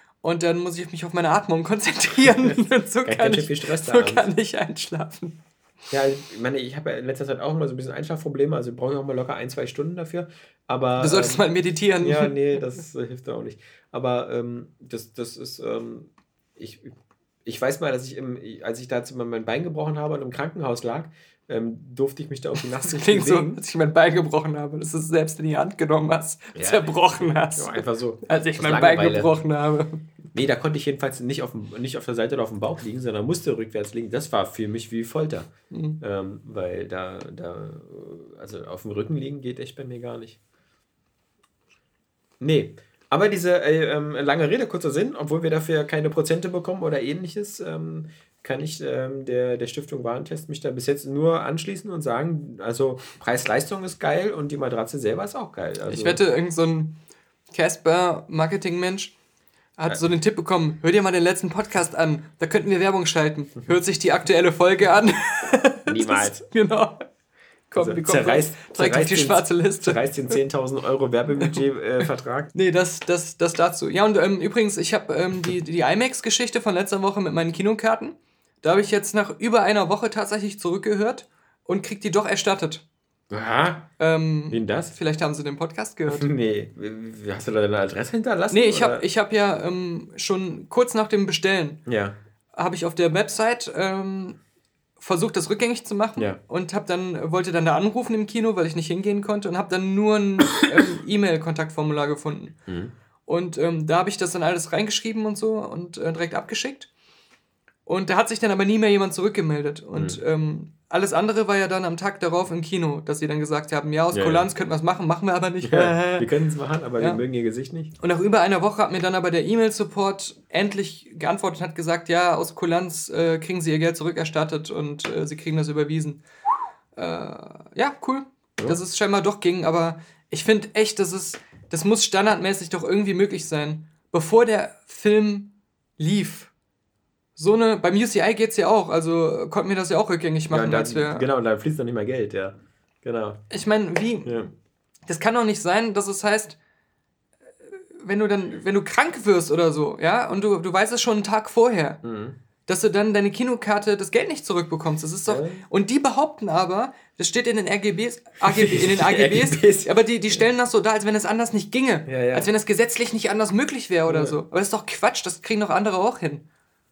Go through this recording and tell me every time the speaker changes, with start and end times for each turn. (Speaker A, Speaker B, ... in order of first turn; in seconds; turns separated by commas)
Speaker A: 0.2-5.4, Speaker B: 2.4-4.3, Speaker B: 5.9-11.5, Speaker A: 11.0-12.3, Speaker B: 12.0-23.6, Speaker A: 22.8-30.0, Speaker B: 26.6-29.4, Speaker B: 30.3-40.4, Speaker A: 35.7-36.0, Speaker B: 42.4-56.2, Speaker A: 55.9-57.0, Speaker A: 57.5-59.1, Speaker A: 59.8-67.0, Speaker B: 65.9-66.4, Speaker A: 67.7-70.0, Speaker B: 67.8-72.5, Speaker A: 71.4-82.8, Speaker B: 83.3-83.9, Speaker A: 84.0-86.3, Speaker B: 84.5-84.9, Speaker B: 86.1-89.0, Speaker A: 88.5-91.8, Speaker B: 91.9-92.2, Speaker A: 92.5-94.4, Speaker A: 95.0-102.6, Speaker B: 102.7-102.9, Speaker A: 103.3-106.9, Speaker A: 107.9-116.3, Speaker B: 110.0-110.2, Speaker B: 114.1-114.5, Speaker B: 115.6-117.9, Speaker A: 118.0-126.2, Speaker A: 127.0-136.5, Speaker A: 137.4-141.3, Speaker B: 140.5-143.4, Speaker A: 143.5-144.3, Speaker B: 144.2-144.5, Speaker A: 145.1-146.6, Speaker A: 148.0-152.0, Speaker B: 152.0-152.4, Speaker A: 152.7-166.4, Speaker B: 155.3-155.6, Speaker B: 158.5-160.4, Speaker B: 162.1-162.5, Speaker B: 164.1-164.4